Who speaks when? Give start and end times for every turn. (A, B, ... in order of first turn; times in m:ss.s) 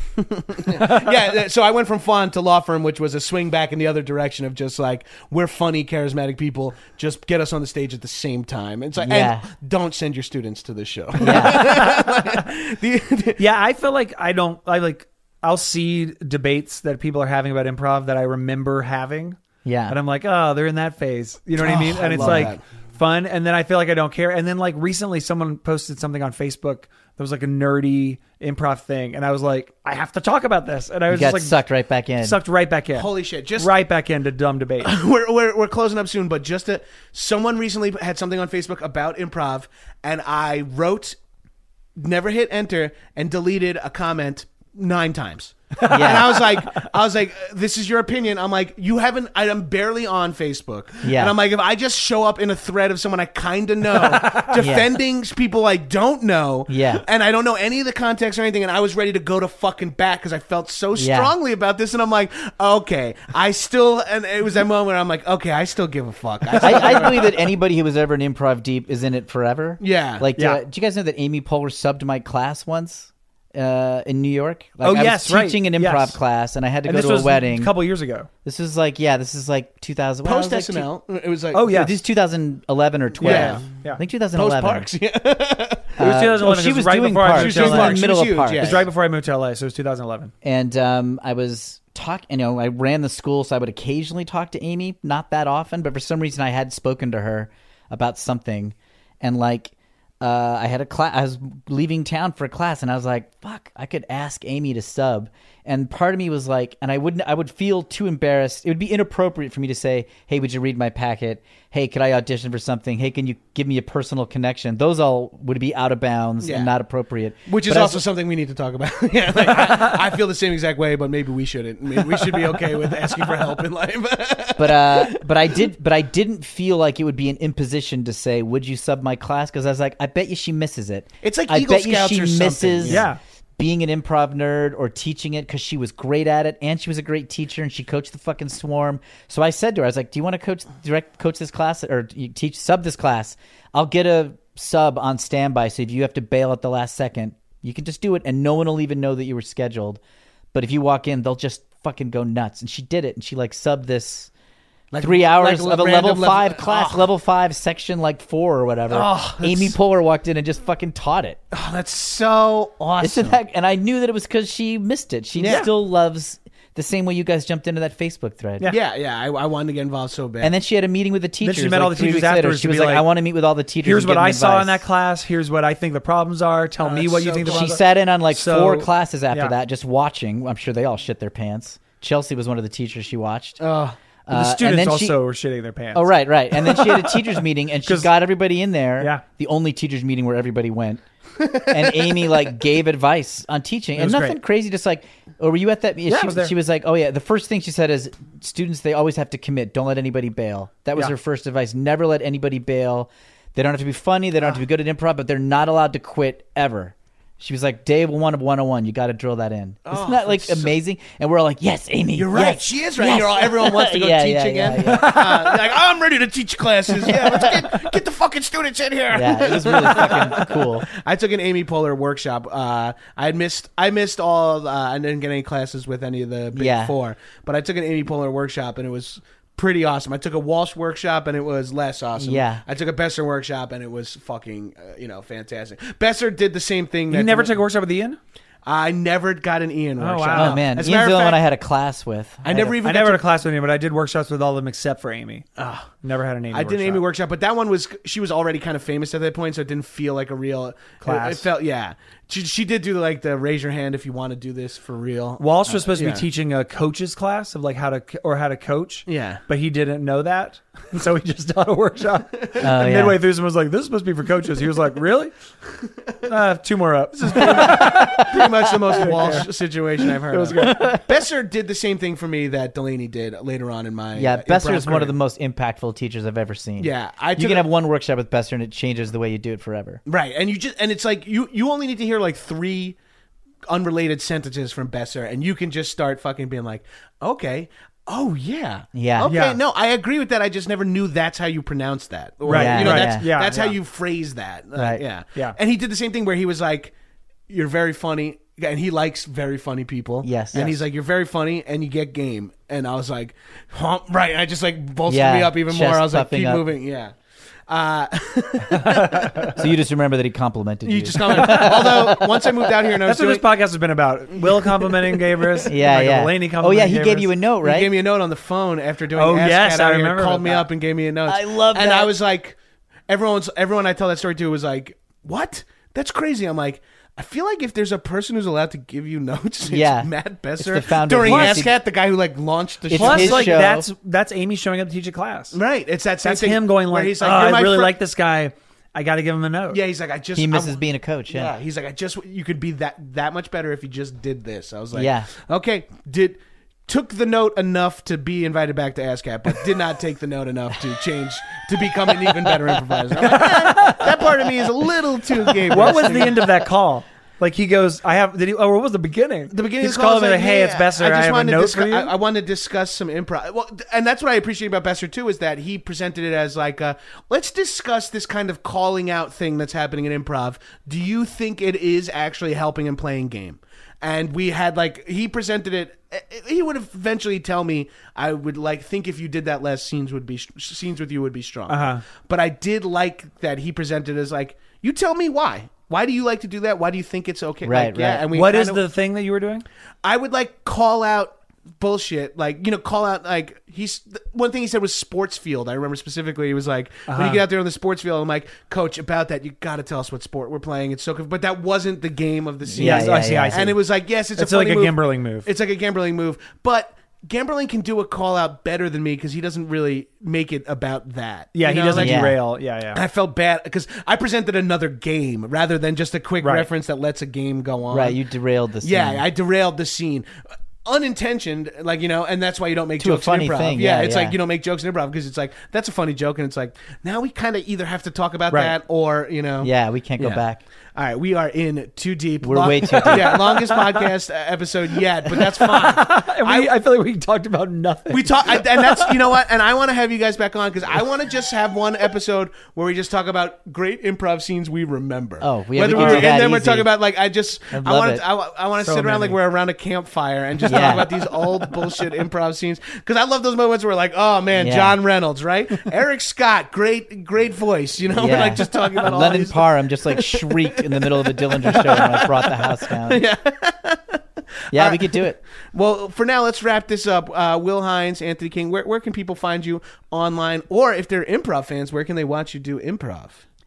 0:00.2-0:13.4 A
0:09.0-0:09.5 B
0:11.2-0:11.9 B
0:11.2-0:12.4 C
0:13.4-0:31.6 C
0:19.6-0:20.0 B
0:21.6-0:22.6 A
0:22.2-0:22.5 B
0:31.1-0:32.4 B
0:32.2-0:34.9 C
0:32.9-0:33.7 A
0:34.8-0:41.2 A
0:42.0-1:07.3 A
0:45.8-0:46.4 C
0:45.9-0:46.5 B
0:51.0-0:51.3 B
0:54.0-0:54.6 C
0:54.5-0:54.9 B
0:56.7-0:57.0 B
1:01.0-1:01.3 B
1:06.5-1:07.1 C
1:06.6-1:17.7 B
1:09.8-1:10.3 A
1:14.8-1:16.2 C
1:16.8-1:18.3 C
1:18.4-1:20.9 B
1:20.2-1:21.7 A
1:21.5-1:22.0 C
1:21.6-1:24.9 B
1:23.2-1:24.0 C
1:23.2-1:23.7 A
1:24.3-1:26.0 A
1:26.0-1:28.8 B
1:26.0-1:30.3 C
1:27.3-1:28.8 A
1:30.4-1:58.0 B
1:56.4-1:56.8 A
1:57.5-2:05.6 A
2:04.6-2:30.0 B
2:11.2-2:13.1 A
2:12.8-2:13.2 C
2:30.5-2:34.3 B
2:34.9-2:37.1 A
2:35.0-2:41.4 B
2:38.9-2:39.8 A
2:41.5-2:43.4 A
2:43.0-2:48.7 B
2:45.4-2:45.7 A
2:48.7-2:50.5 A
2:50.4-2:54.8 B
2:51.4-2:53.1 C
2:53.8-2:59.5 C
2:56.8-2:57.8 A
2:57.5-3:03.6 B
3:03.6-3:04.0 A
3:04.3-3:05.2 B
3:04.3-3:08.1 C
3:05.9-3:11.0 B
3:11.4-3:12.1 A
3:11.6-3:35.7 B
3:14.0-3:14.4 C
3:16.1-3:16.5 C
3:29.9-3:30.7 A
3:32.2-3:57.6 A
3:37.0-3:37.9 B
3:39.1-3:40.9 B
3:46.6-3:46.9 B
3:52.2-3:52.6 B
3:57.1-3:58.2 C
3:58.7-4:01.4 A
4:00.0-4:00.6 C
4:00.3-4:02.8 B
4:02.4-4:03.2 A
4:02.8-4:05.5 C
4:05.6-4:05.9 A
4:06.0-4:07.0 C
4:06.5-4:16.3 A
4:11.0-4:11.5 C
4:15.4-4:25.3 C
4:19.1-4:19.4 A
4:22.6-4:23.2 B
4:26.3-4:29.5 C
4:27.1-4:35.2 A
4:27.6-4:28.1 B
4:30.1-4:31.0 C
4:30.6-4:31.0 B
4:34.2-4:40.0 B
4:36.8-4:37.7 A
4:40.1-4:43.0 A
4:43.7-4:56.9 A
4:48.9-4:49.3 B
4:49.3-4:49.6 C
4:52.5-4:53.8 C
4:52.5-4:53.3 B
4:54.8-4:55.0 B
4:57.5-5:07.2 A
5:00.2-5:00.8 B
5:05.1-5:06.6 B
5:07.7-5:09.6 A
5:08.7-5:09.5 C
5:09.6-5:12.4 B
5:10.8-5:13.4 A
5:11.2-5:12.2 C
5:13.0-5:17.3 C
5:14.6-5:15.4 A
5:15.7-5:17.9 B
5:17.6-5:22.6 A
5:19.2-5:20.7 C
5:21.3-5:22.1 B
5:23.1-5:33.6 A
5:29.7-5:31.7 B
5:31.2-5:31.7 C
5:32.9-5:33.9 B
5:32.9-5:35.6 C
5:35.5-5:38.0 A
5:36.2-5:39.8 C
5:39.7-5:56.6 A
5:40.4-5:41.5 B
5:44.9-5:45.3 B
5:53.1-5:54.7 C
5:55.7-6:02.1 C
5:59.5-6:28.8 A
6:21.7-6:22.0 C
6:27.6-6:28.3 B
6:28.3-6:29.6 C
6:30.0-6:52.3 A
6:37.1-6:37.4 C
6:42.6-6:43.7 B
6:42.8-6:43.8 C
6:44.4-6:45.5 C
6:51.6-6:53.0 C
6:52.0-6:52.4 B
6:52.9-6:58.2 A
6:56.4-6:56.7 C
6:57.9-6:59.2 B
6:58.8-7:00.3 A
7:00.8-7:10.4 A
7:03.0-7:04.4 B
7:09.6-7:10.6 B
7:11.0-7:16.7 A
7:12.4-7:13.6 B
7:12.9-7:14.0 C
7:15.3-7:19.3 C
7:18.1-7:53.4 A
7:25.4-7:26.9 B
7:25.9-7:26.3 C
7:27.7-7:28.2 B
7:28.8-7:29.4 C
7:30.7-7:31.1 B
7:34.6-7:35.0 B
7:38.2-7:43.2 B
7:44.7-7:45.4 B